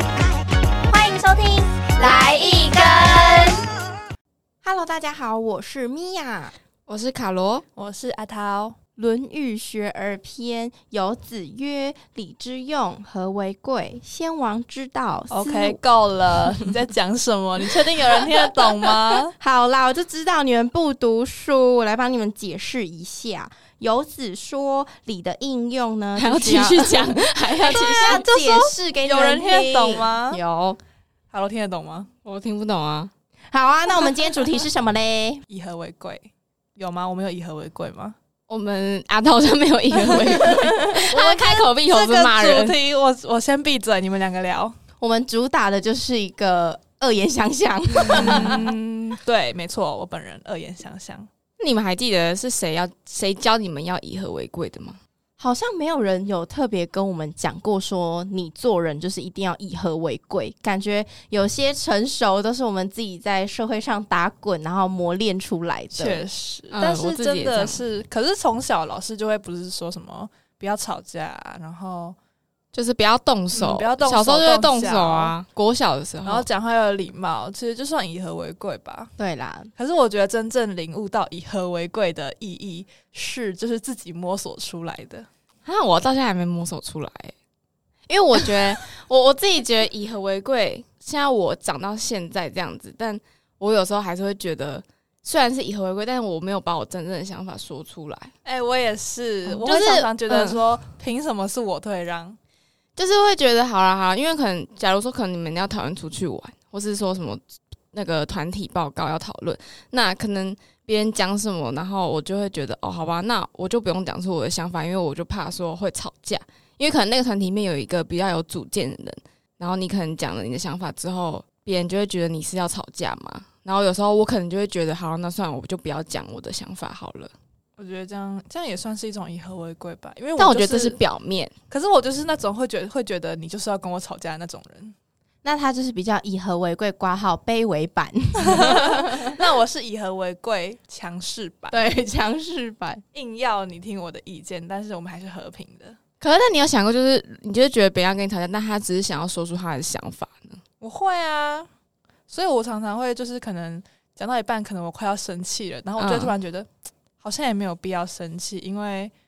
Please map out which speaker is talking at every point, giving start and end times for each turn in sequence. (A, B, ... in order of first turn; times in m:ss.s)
0:00.8-0:03.6 A
0:04.6-0:06.5 A
0:06.9-0:07.6 B
0:07.8-0:08.8 C
0:09.0-0:15.8 A
0:15.3-0:19.3 C
0:17.8-0:30.8 A
0:26.2-0:28.2 B
0:27.6-0:30.4 C
0:31.3-0:32.1 C
0:32.2-0:33.1 B
0:33.5-0:35.4 A
0:35.5-0:38.2 C
0:38.5-0:42.8 B
0:40.4-0:41.1 A
0:41.1-0:44.7 C
0:45.0-0:48.7 A
0:48.1-0:51.3 C
0:48.2-0:48.5 B
0:51.6-0:55.0 B
0:55.4-1:06.2 A
1:05.9-1:12.2 C
1:06.7-1:07.8 B
1:12.7-1:16.5 B
1:13.5-1:15.4 C
1:16.2-1:19.1 C
1:19.2-1:19.7 A
1:19.8-1:25.3 C
1:25.6-1:27.3 B
1:28.1-1:38.3 B
1:38.4-1:42.4 C
1:39.4-1:40.6 B
1:43.0-2:07.3 B
2:07.8-2:11.0 C
2:10.4-2:11.5 B
2:11.7-2:14.9 C
2:15.4-2:19.3 A
2:18.5-2:21.8 C
2:21.7-2:23.0 A
2:23.1-2:26.0 C
2:26.2-2:30.6 B
2:30.8-2:31.7 C
2:32.3-2:36.7 C
2:36.0-2:36.3 B
2:37.2-2:39.1 C